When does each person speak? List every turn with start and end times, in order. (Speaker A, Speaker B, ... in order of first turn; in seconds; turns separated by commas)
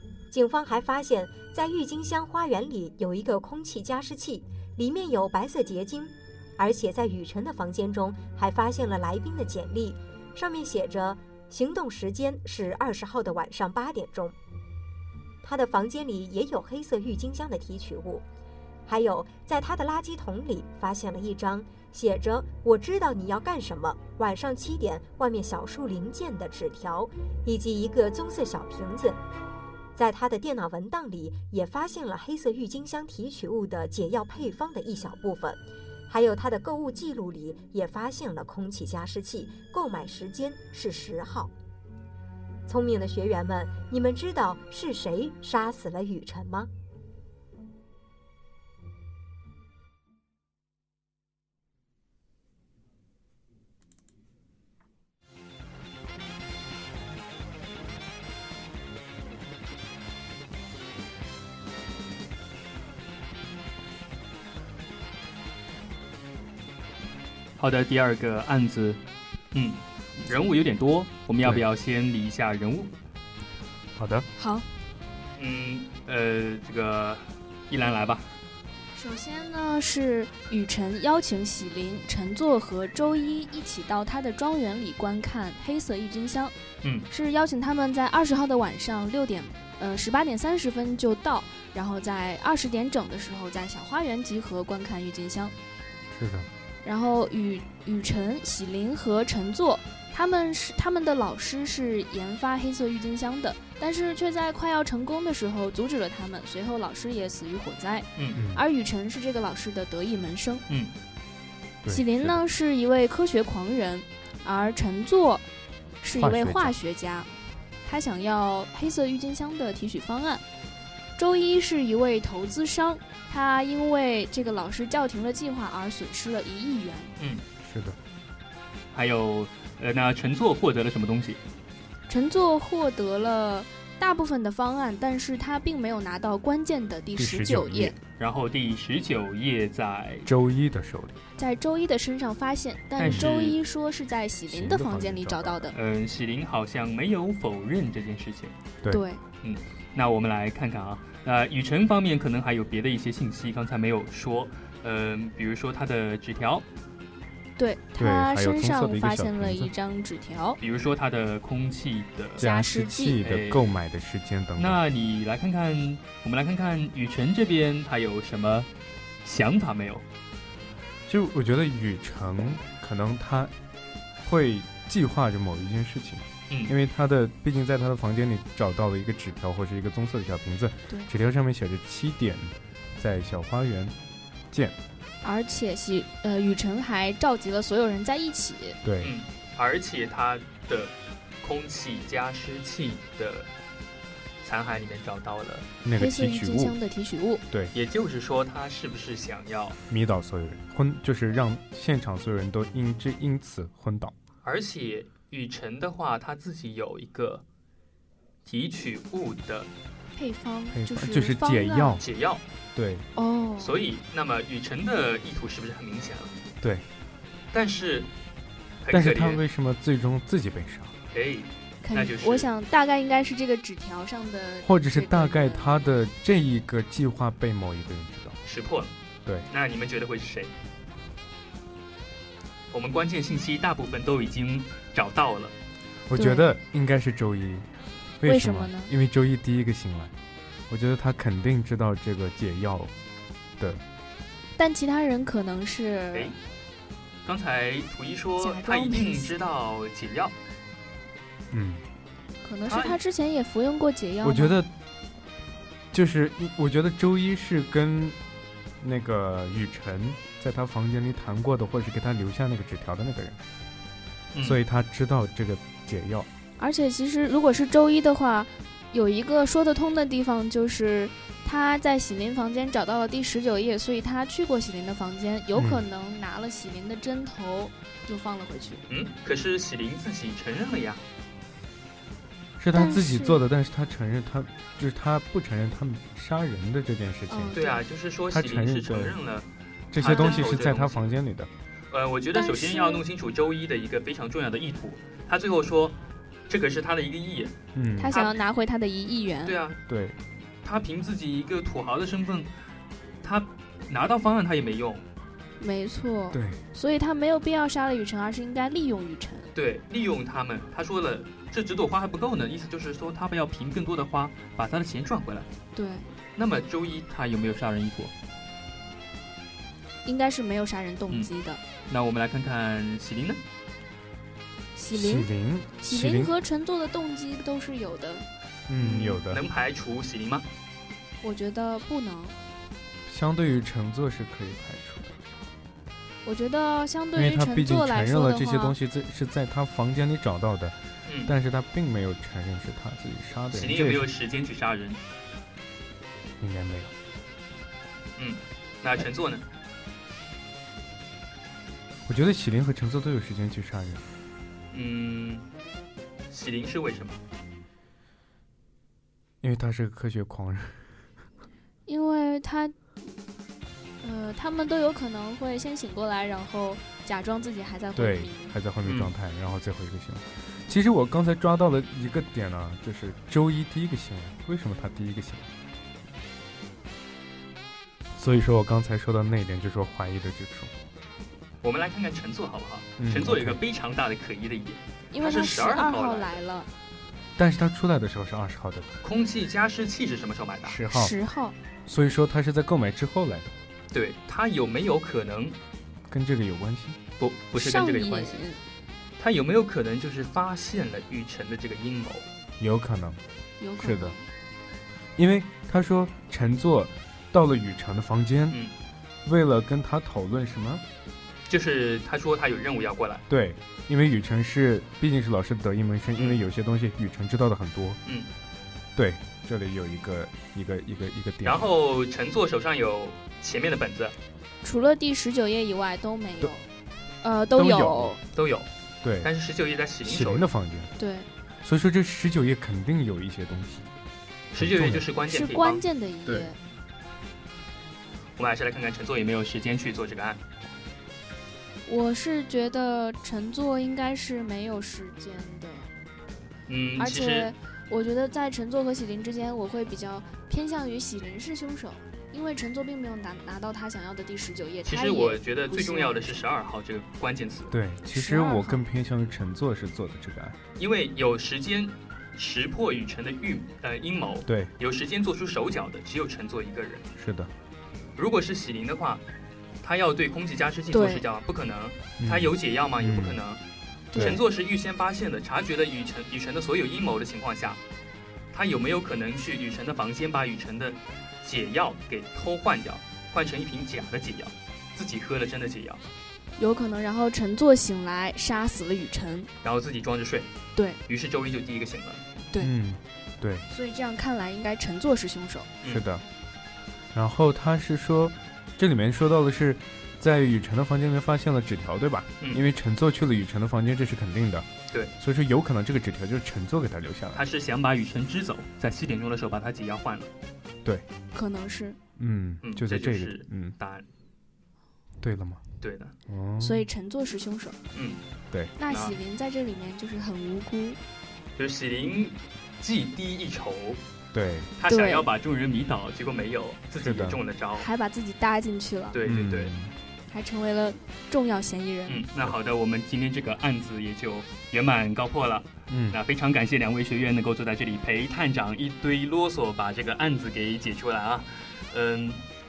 Speaker A: 0.3-14.3, Speaker A: 15.4-18.2, Speaker A: 18.9-29.2, Speaker A: 29.9-41.5, Speaker A: 42.7-46.7, Speaker B: 67.6-69.0, Speaker B: 69.5-72.9, Speaker C: 74.0-74.3, Speaker D: 74.4-74.7, Speaker B: 75.4-78.3, Speaker D: 78.9-86.5, Speaker B: 86.8-87.1, Speaker D: 87.1-95.5, Speaker C: 96.1-96.5, Speaker D: 96.8-110.6, Speaker C: 108.3-108.6, Speaker C: 111.8-112.4, Speaker D: 111.9-115.5, Speaker D: 116.0-120.4, Speaker C: 116.1-116.7, Speaker D: 121.2-127.1, Speaker B: 127.2-127.4, Speaker C: 127.6-128.0, Speaker B: 128.9-131.4, Speaker D: 132.1-137.9, Speaker C: 137.2-138.0, Speaker B: 138.2-140.3, Speaker C: 140.2-141.2, Speaker D: 141.4-145.7, Speaker B: 143.0-143.6, Speaker C: 143.0-143.3, Speaker C: 144.5-145.7, Speaker B: 145.7-148.5, Speaker D: 148.9-149.2, Speaker B: 149.4-156.6, Speaker D: 157.6-160.6, Speaker C: 158.0-159.7, Speaker B: 160.6-162.4, Speaker D: 162.4-163.2, Speaker C: 162.4-164.8, Speaker B: 163.2-163.6, Speaker B: 164.6-168.7, Speaker B: 169.2-170.0, Speaker C: 171.1-173.5, Speaker C: 174.2-183.9, Speaker B: 176.5-176.7, Speaker C: 184.5-184.8, Speaker D: 185.2-188.8, Speaker C: 188.8-189.1, Speaker B: 189.0-193.5, Speaker B: 194.4-195.7, Speaker C: 195.8-196.8, Speaker D: 195.9-197.4, Speaker B: 197.7-199.8, Speaker C: 199.9-204.1, Speaker B: 204.4-207.4, Speaker B: 208.4-209.7, Speaker D: 210.1-212.0, Speaker C: 210.7-212.0, Speaker B: 212.0-212.4, Speaker C: 212.7-213.1, Speaker D: 213.2-213.8, Speaker B: 213.6-216.4, Speaker C: 216.6-216.8, Speaker B: 217.5-218.1, Speaker B: 218.8-219.4, Speaker C: 218.9-220.9, Speaker B: 221.1-222.5, Speaker D: 221.8-225.8, Speaker C: 224.6-228.4, Speaker B: 228.4-228.9, Speaker B: 229.5-230.5, Speaker B: 232.7-235.6, Speaker C: 236.1-240.1, Speaker D: 236.1-236.5, Speaker D: 238.2-238.9, Speaker C: 240.7-242.9, Speaker D: 244.6-246.3, Speaker B: 247.2-250.3, Speaker D: 248.4-249.3, Speaker C: 251.5-251.8, Speaker D: 252.4-254.6, Speaker B: 252.7-253.0, Speaker C: 254.2-254.7, Speaker C: 255.9-258.2, Speaker C: 258.8-263.4, Speaker B: 264.3-264.6, Speaker C: 264.4-266.3, Speaker D: 266.6-278.8, Speaker C: 275.5-275.8, Speaker B: 278.9-281.0, Speaker C: 282.6-287.6, Speaker D: 282.7-283.4, Speaker D: 287.3-287.8, Speaker B: 287.5-291.1, Speaker C: 288.3-289.1, Speaker C: 289.9-291.5, Speaker D: 290.0-290.6, Speaker B: 291.9-296.0, Speaker D: 292.3-293.0, Speaker B: 296.5-297.5, Speaker C: 297.7-298.1, Speaker D: 298.0-299.6, Speaker B: 298.1-298.4, Speaker B: 299.4-299.8, Speaker C: 299.9-300.2, Speaker B: 300.6-302.5, Speaker B: 303.2-305.0, Speaker D: 305.6-309.5, Speaker C: 306.3-306.6, Speaker B: 309.5-315.5, Speaker D: 315.7-316.1, Speaker B: 316.4-318.1, Speaker D: 320.0-321.6, Speaker B: 321.9-323.4, Speaker D: 324.7-328.2, Speaker C: 324.9-326.3, Speaker C: 328.7-329.4, Speaker B: 328.8-330.5, Speaker D: 331.2-332.4, Speaker C: 333.1-335.3, Speaker D: 336.2-338.8, Speaker C: 337.1-344.1, Speaker B: 341.1-341.3, Speaker B: 343.5-345.0, Speaker C: 346.4-346.9, Speaker B: 348.2-349.4, Speaker C: 352.1-354.0, Speaker B: 354.7-355.4, Speaker B: 356.3-357.2, Speaker C: 359.4-360.9, Speaker D: 361.9-362.7, Speaker D: 364.0-368.6, Speaker C: 367.9-375.5, Speaker B: 368.8-369.1, Speaker C: 378.1-380.7, Speaker B: 381.6-386.4, Speaker C: 383.0-383.6, Speaker D: 385.1-386.7, Speaker C: 387.4-388.9, Speaker B: 389.0-390.8, Speaker C: 390.6-391.1, Speaker D: 390.9-391.5, Speaker C: 391.9-393.5, Speaker B: 393.9-395.6, Speaker C: 396.1-397.0, Speaker B: 397.2-398.4, Speaker D: 397.6-398.6, Speaker B: 399.2-402.3, Speaker C: 402.6-403.2, Speaker D: 403.6-404.3, Speaker C: 403.8-404.1, Speaker C: 405.1-408.6, Speaker C: 409.2-410.8, Speaker B: 411.5-413.2, Speaker C: 413.3-418.0, Speaker B: 416.1-416.4, Speaker B: 418.0-418.3, Speaker C: 418.9-421.7, Speaker B: 421.4-424.1, Speaker D: 424.6-426.7, Speaker D: 427.2-428.2, Speaker C: 427.5-428.2, Speaker B: 428.3-428.7, Speaker C: 429.0-429.3, Speaker B: 429.2-430.5, Speaker C: 430.0-430.9, Speaker D: 431.0-431.3, Speaker C: 431.6-433.9, Speaker B: 434.5-435.8, Speaker C: 434.6-435.0, Speaker D: 435.3-436.6, Speaker B: 438.4-440.4, Speaker D: 441.9-445.9, Speaker B: 446.7-447.5, Speaker D: 447.0-456.4, Speaker B: 454.8-457.7, Speaker C: 457.7-460.6, Speaker D: 458.1-458.8, Speaker B: 460.8-467.1, Speaker C: 464.4-464.7, Speaker C: 467.2-467.5, Speaker B: 468.1-469.2, Speaker B: 469.8-473.6, Speaker D: 470.9-471.2, Speaker C: 472.2-473.4, Speaker D: 474.1-474.4, Speaker B: 474.1-477.8, Speaker C: 474.1-474.4, Speaker B: 478.5-486.0, Speaker D: 486.6-489.5, Speaker B: 489.6-490.5, Speaker B: 491.1-492.2, Speaker C: 492.6-493.7, Speaker D: 493.7-495.7, Speaker C: 495.8-496.2, Speaker C: 497.1-504.7, Speaker C: 505.2-507.4, Speaker B: 507.3-510.3, Speaker D: 511.3-512.0, Speaker C: 512.2-513.7, Speaker B: 512.6-514.1, Speaker C: 515.2-515.6, Speaker B: 515.8-516.1, Speaker C: 516.3-516.9, Speaker D: 516.6-517.8, Speaker B: 517.9-518.2, Speaker D: 518.8-521.0, Speaker B: 518.9-519.2, Speaker B: 521.5-524.0, Speaker C: 524.3-524.7, Speaker B: 524.8-527.9, Speaker D: 524.9-525.3, Speaker C: 527.0-527.4, Speaker D: 527.8-529.2, Speaker B: 529.1-529.7, Speaker C: 529.2-529.9, Speaker D: 530.3-532.2, Speaker B: 532.1-542.4, Speaker C: 535.9-536.2